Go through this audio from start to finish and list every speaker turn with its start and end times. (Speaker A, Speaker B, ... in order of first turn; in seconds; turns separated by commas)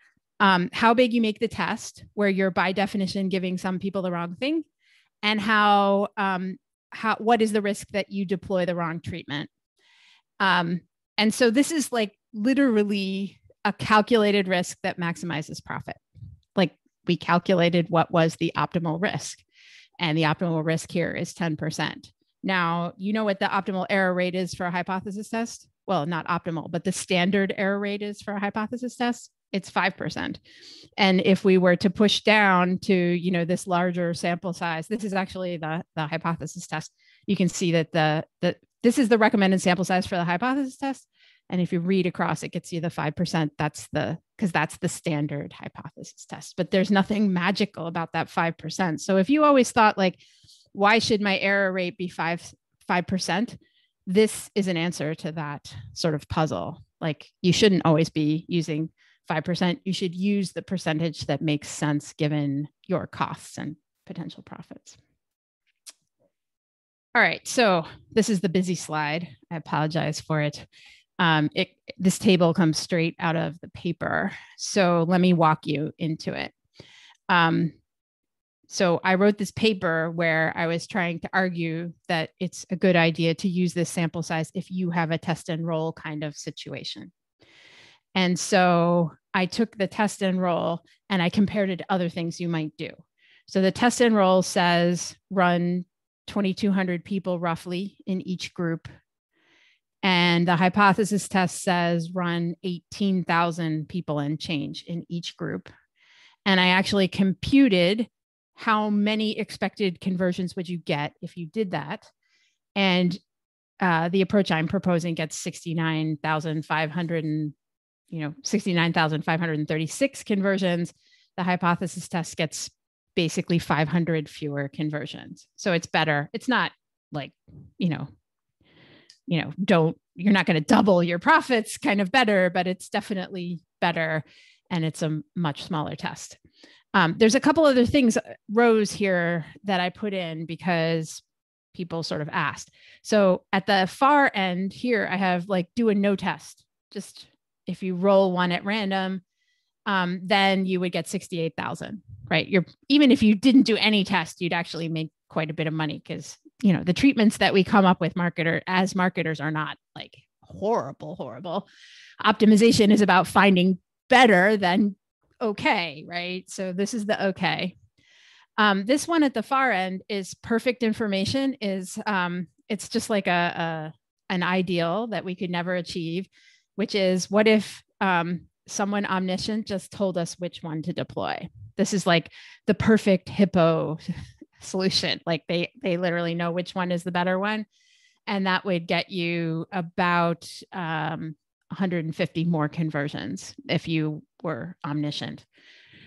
Speaker A: 0.4-4.7, Speaker A: 5.2-9.5, Speaker A: 10.4-16.0, Speaker A: 16.6-19.4, Speaker A: 20.0-30.4, Speaker A: 31.0-50.2, Speaker A: 50.7-65.0, Speaker A: 67.2-70.7, Speaker A: 71.2-76.5, Speaker A: 77.3-77.8, Speaker A: 78.7-87.1, Speaker A: 88.2-98.9, Speaker A: 100.0-105.7, Speaker A: 106.5-112.1, Speaker A: 112.8-113.2, Speaker A: 113.8-117.5, Speaker A: 118.1-128.1, Speaker A: 129.3-136.4, Speaker A: 136.9-141.2, Speaker A: 141.7-149.2, Speaker A: 149.9-161.7, Speaker A: 162.2-167.8, Speaker A: 168.6-184.1, Speaker A: 184.6-187.7, Speaker A: 188.3-195.4